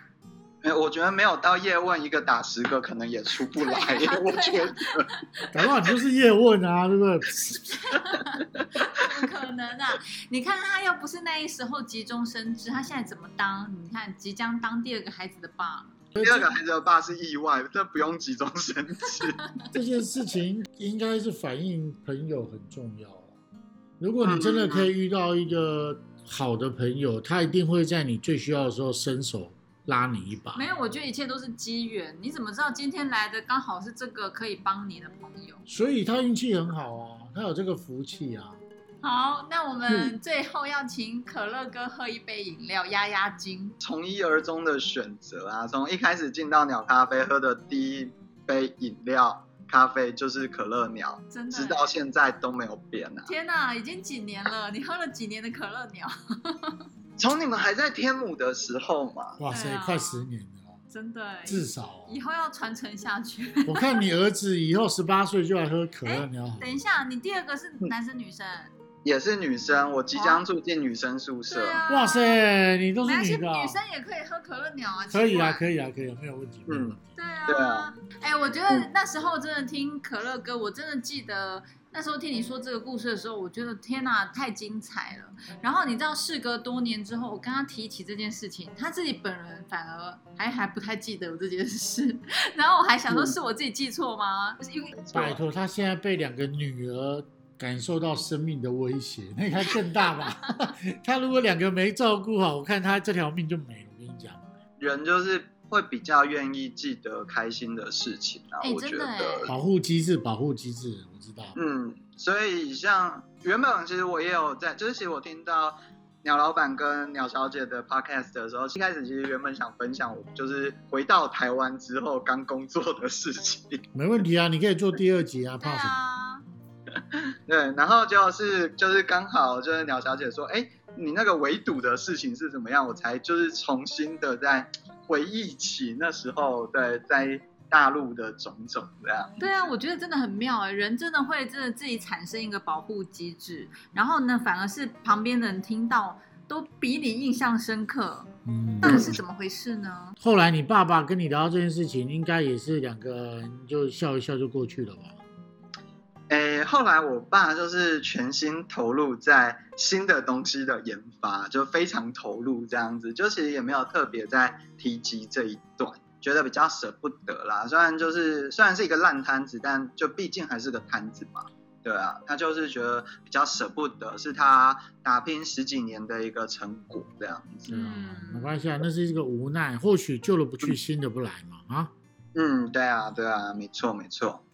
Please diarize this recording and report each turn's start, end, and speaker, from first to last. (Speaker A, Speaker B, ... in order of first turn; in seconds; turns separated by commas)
Speaker A: 0.6-5.1, Speaker B: 3.6-5.5, Speaker C: 5.5-7.8, Speaker B: 7.7-16.0, Speaker C: 16.1-16.5, Speaker A: 16.2-19.4, Speaker C: 19.7-23.4, Speaker C: 24.0-30.6, Speaker A: 24.2-24.9, Speaker B: 30.5-35.6, Speaker C: 35.7-38.6, Speaker B: 39.0-43.8, Speaker A: 39.9-40.1, Speaker A: 43.8-53.3, Speaker B: 51.3-51.9, Speaker B: 53.2-56.8, Speaker A: 57.2-59.4, Speaker C: 59.4-60.8, Speaker B: 59.5-60.3, Speaker B: 60.9-63.9, Speaker C: 61.5-62.1, Speaker C: 63.6-66.7, Speaker B: 66.0-68.7, Speaker A: 69.0-71.8, Speaker B: 70.1-70.4, Speaker B: 71.5-72.4, Speaker C: 71.9-73.8, Speaker B: 73.0-75.6, Speaker C: 75.1-77.0, Speaker A: 76.7-77.9, Speaker B: 77.2-94.9, Speaker A: 93.1-93.3, Speaker A: 94.9-95.4, Speaker C: 95.1-104.5, Speaker A: 104.8-109.5, Speaker B: 108.6-109.5, Speaker C: 109.5-111.5, Speaker A: 111.5-123.9, Speaker C: 123.9-126.0, Speaker B: 125.6-126.4, Speaker A: 127.1-139.7, Speaker B: 139.4-150.2, Speaker C: 148.4-149.2, Speaker A: 148.8-149.2, Speaker C: 150.2-155.2, Speaker A: 156.3-177.7, Speaker B: 177.7-178.5, Speaker C: 177.7-181.9, Speaker A: 182.3-184.4